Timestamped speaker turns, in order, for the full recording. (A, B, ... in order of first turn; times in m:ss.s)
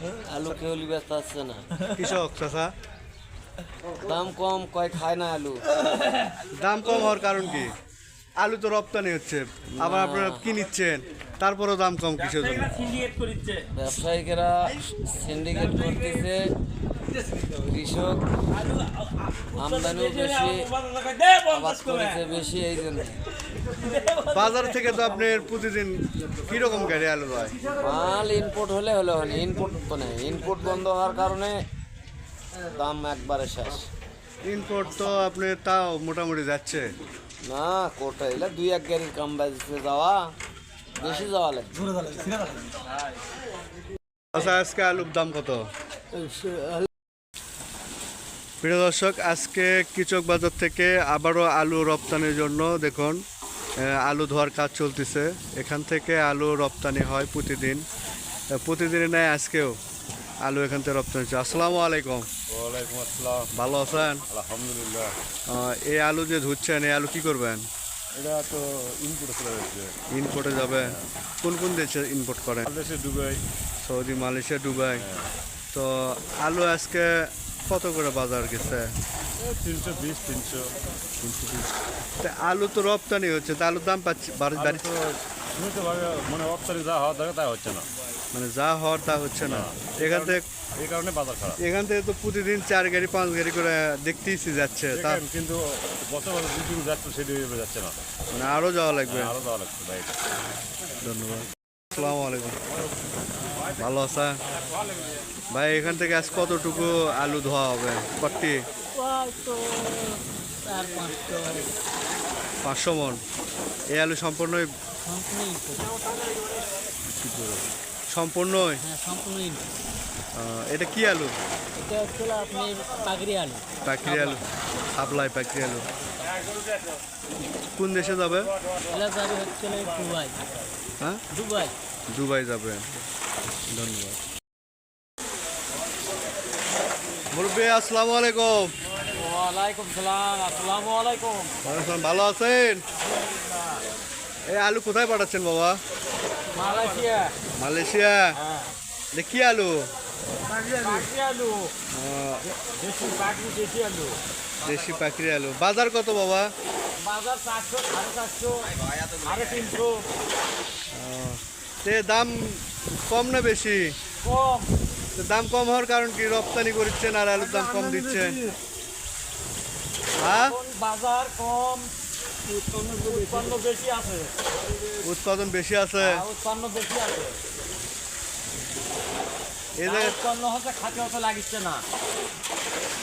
0:00.2-0:01.7 A
0:01.9-0:02.7 B
0:04.0-0:05.6 A
0:06.4-0:07.8 B
0:08.4-0:13.0 B
0:09.8-0:10.5 A
0:12.8-0:13.6 C
0:13.7-0:16.5 A
0:17.5-0:18.2 A
0:19.5-0:20.7 A
0:20.9-0:21.3 C
0:21.3-0:23.2 A
0:24.2-0:27.6 B
0:27.8-0:31.6 A
0:32.7-0:33.8 A
0:34.4-0:36.9 B
0:37.4-0:40.2 A
0:41.0-0:41.8 A
0:42.1-0:42.4 C
0:44.3-0:45.7 B
0:48.6-0:53.2 B
0:53.8-0:57.8 B
0:58.5-0:59.8 B
1:00.4-1:02.3 B
1:02.5-1:03.5 D
1:03.5-1:04.2 B
1:04.3-1:05.1 D
1:05.5-1:07.7 B
1:08.1-1:09.9 D
1:10.1-1:12.7 B
1:10.7-1:11.0 D
1:12.6-1:13.4 D
1:13.8-1:15.0 B
1:14.9-1:15.3 D
1:15.7-1:18.9 B
1:19.4-1:20.7 D
1:21.2-1:24.9 B
1:24.6-1:27.9 D
1:28.3-1:30.4 B
1:29.4-1:31.6 D
1:31.6-1:35.2 B
1:34.9-1:38.0 D
1:38.3-1:39.3 B
1:39.0-1:40.2 D
1:41.0-1:42.6 B
1:43.8-1:44.4 B
1:45.5-1:48.6 B
1:49.0-1:51.7 C
1:52.6-1:53.2 B
1:53.9-1:54.7 B
1:55.0-1:55.9 C
1:57.1-1:58.8 B
1:58.8-1:59.6 C
2:00.3-2:01.3 B
2:01.8-2:04.4 C
2:03.8-2:04.4 B
2:04.9-2:05.9 B
2:07.8-2:08.5 B
2:08.9-2:10.4 C
2:11.3-2:11.7 C
2:12.1-2:12.8 B
2:13.7-2:14.2 B
2:17.3-2:18.7 B
2:19.1-2:21.6 C
2:21.6-2:22.8 B
2:24.5-2:25.8 B
2:26.5-2:27.3 C
2:27.6-2:28.3 B
2:28.4-2:28.7 C
2:29.1-2:29.9 B
2:30.6-2:31.7 C
2:31.9-2:32.4 B
2:32.5-2:35.0 C
2:34.6-2:36.5 B
2:37.0-2:40.1 C
2:40.9-2:43.9 B
2:44.2-2:44.7 C
2:45.2-2:48.4 B
2:47.4-2:48.5 C
2:50.2-2:50.6 B
2:50.4-2:51.9 C
2:52.5-2:54.3 C
2:55.0-2:56.2 B
2:56.0-2:57.4 C
2:59.8-3:00.2 B
2:59.8-3:01.8 C